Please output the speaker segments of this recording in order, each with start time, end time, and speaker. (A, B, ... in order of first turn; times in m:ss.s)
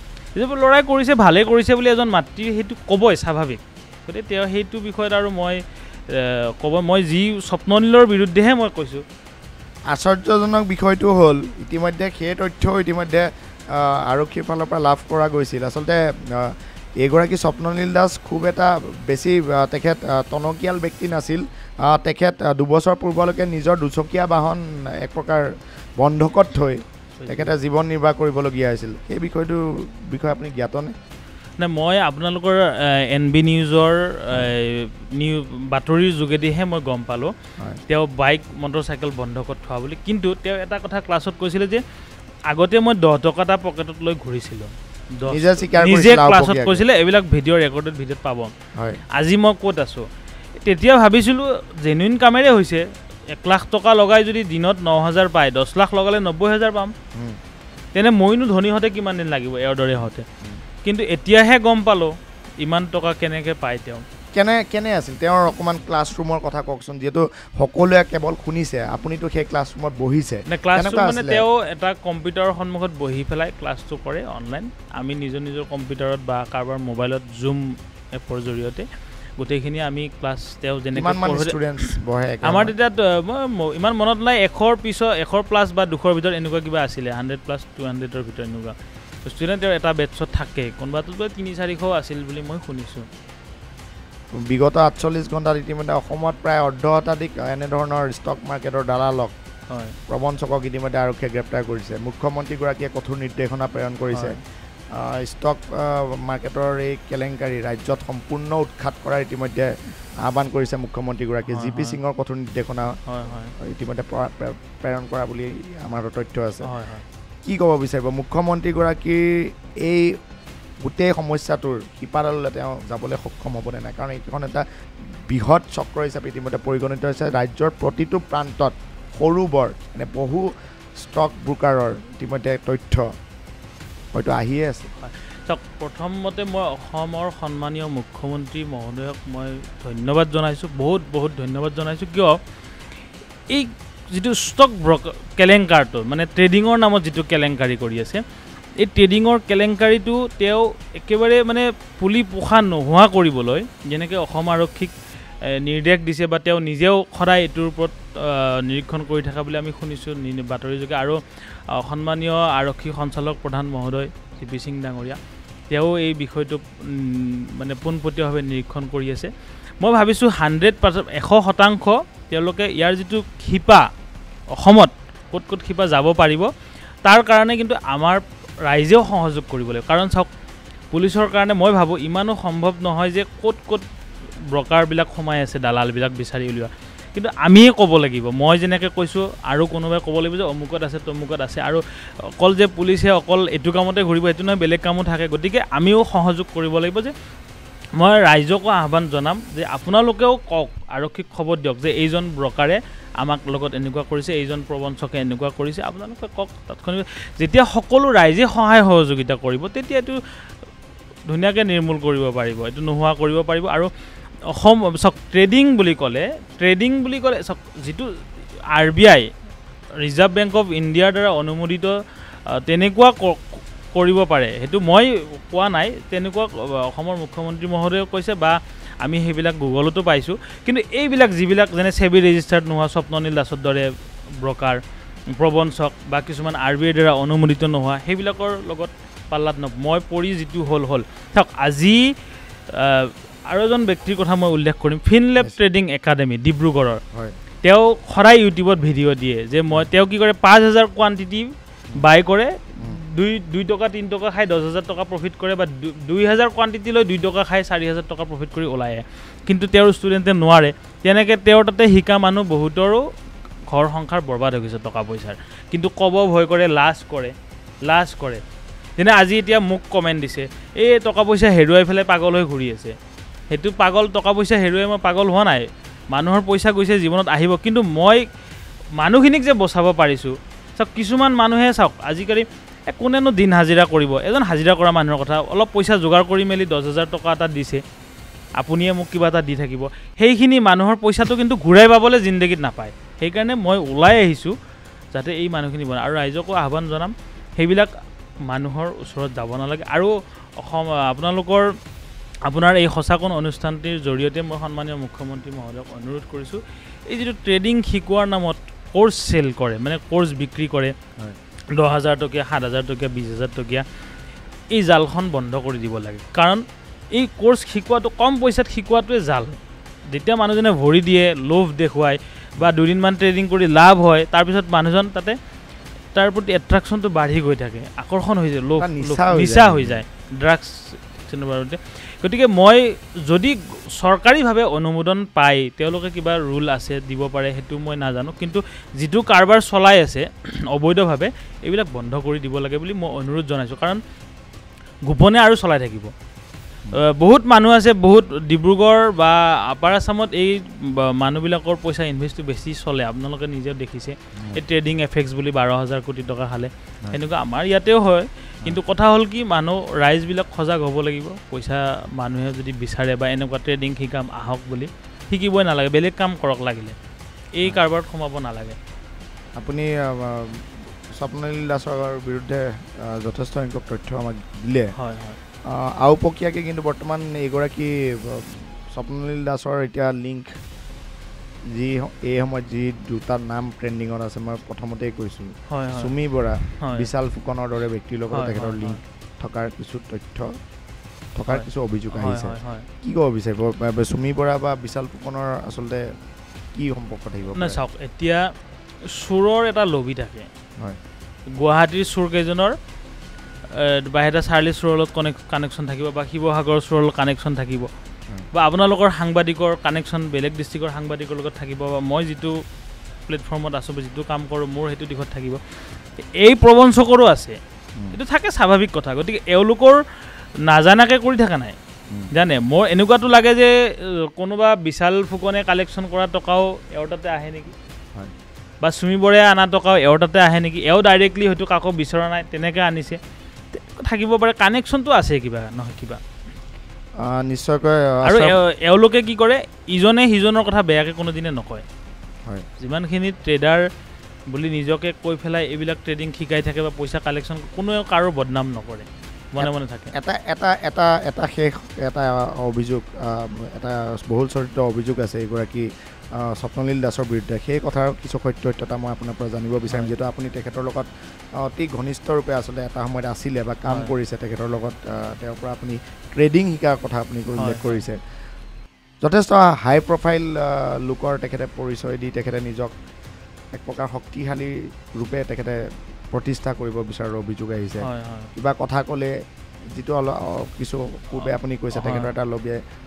0:00.3-0:09.0 A
0:09.9-0:25.5 B
0:26.0-0:30.9 B
0:27.2-0:27.5 A
0:31.6-0:37.3 A
0:37.9-0:41.8 A
0:42.5-0:48.5 A
0:45.3-0:46.8 B
0:48.8-0:49.0 B
0:49.1-0:56.9 A
0:57.9-1:00.2 A
1:00.0-1:00.6 B
1:00.8-1:04.0 A
1:04.3-1:11.4 B
1:10.5-1:18.8 A
1:19.4-1:21.9 A
1:21.0-1:22.7 B
1:22.4-1:33.1 A
1:34.4-1:39.3 B
1:39.7-1:40.0 A
1:40.1-1:44.3 B
1:44.1-1:44.4 A
1:44.9-1:53.0 B
1:51.5-1:52.0 A
1:53.1-1:53.5 A
1:53.6-1:56.7 B
1:56.6-1:57.0 A
1:57.4-2:00.2 B
2:00.8-2:04.6 B
2:05.3-2:13.1 B
2:14.1-2:14.9 B
2:15.0-2:22.4 A
2:23.5-2:28.2 A
2:28.8-2:34.9 A
2:35.4-2:45.2 A
2:45.7-2:49.3 A
2:49.8-2:53.8 A
2:54.5-2:56.5 A
2:57.0-3:00.3 A
3:00.9-3:03.8 A
3:04.5-3:11.8 A
3:12.3-3:17.1 A
3:18.0-3:30.2 A
3:31.3-3:33.9 A
3:34.5-3:38.1 A
3:38.7-3:39.2 A
3:40.0-3:42.0 A
3:42.5-3:54.8 A
3:55.3-4:02.1 A
4:02.7-4:07.0 A
4:07.6-4:23.0 A
4:23.7-4:27.3 A
4:27.8-4:28.4 A
4:29.0-4:33.0 A
4:33.5-4:38.2 A
4:39.0-4:47.8 A
4:48.6-4:54.6 A
4:55.1-4:57.9 A
4:58.4-5:01.7 A
5:02.4-5:10.9 A
5:11.7-5:13.8 A
5:14.7-5:19.6 A
5:20.1-5:25.4 A
5:26.1-5:44.0 A
5:28.8-5:30.0 B
5:45.1-5:46.1 A
5:46.9-6:07.0 A
6:07.6-6:08.8 A
6:09.6-6:14.9 B
6:15.0-6:15.4 A
6:15.7-6:20.5 B
6:21.7-6:30.5 B
6:25.7-6:26.1 A
6:26.7-6:27.1 A
6:28.3-6:29.0 A
6:31.4-6:36.1 B
6:31.5-6:32.9 A
6:36.7-6:37.8 B
6:37.5-6:38.5 A
6:39.1-6:40.5 A
6:41.5-6:42.8 A
6:43.7-6:47.9 A
6:48.5-6:52.6 A
6:53.3-6:55.6 A
6:56.2-6:57.6 A
6:58.1-7:00.0 A
7:00.6-7:01.7 A
7:02.3-7:07.7 A
7:08.8-7:13.2 A
7:13.7-7:16.2 A
7:17.2-7:18.6 B
7:18.2-7:21.8 A
7:22.8-7:23.8 A
7:24.5-7:30.1 A
7:29.6-7:48.2 B
7:43.9-7:44.1 A
7:47.6-7:48.0 A
7:49.2-7:52.9 B
7:53.8-7:55.8 B
7:56.3-7:59.3 B
7:58.0-7:58.5 A
7:59.9-8:02.8 B
8:01.4-8:02.3 A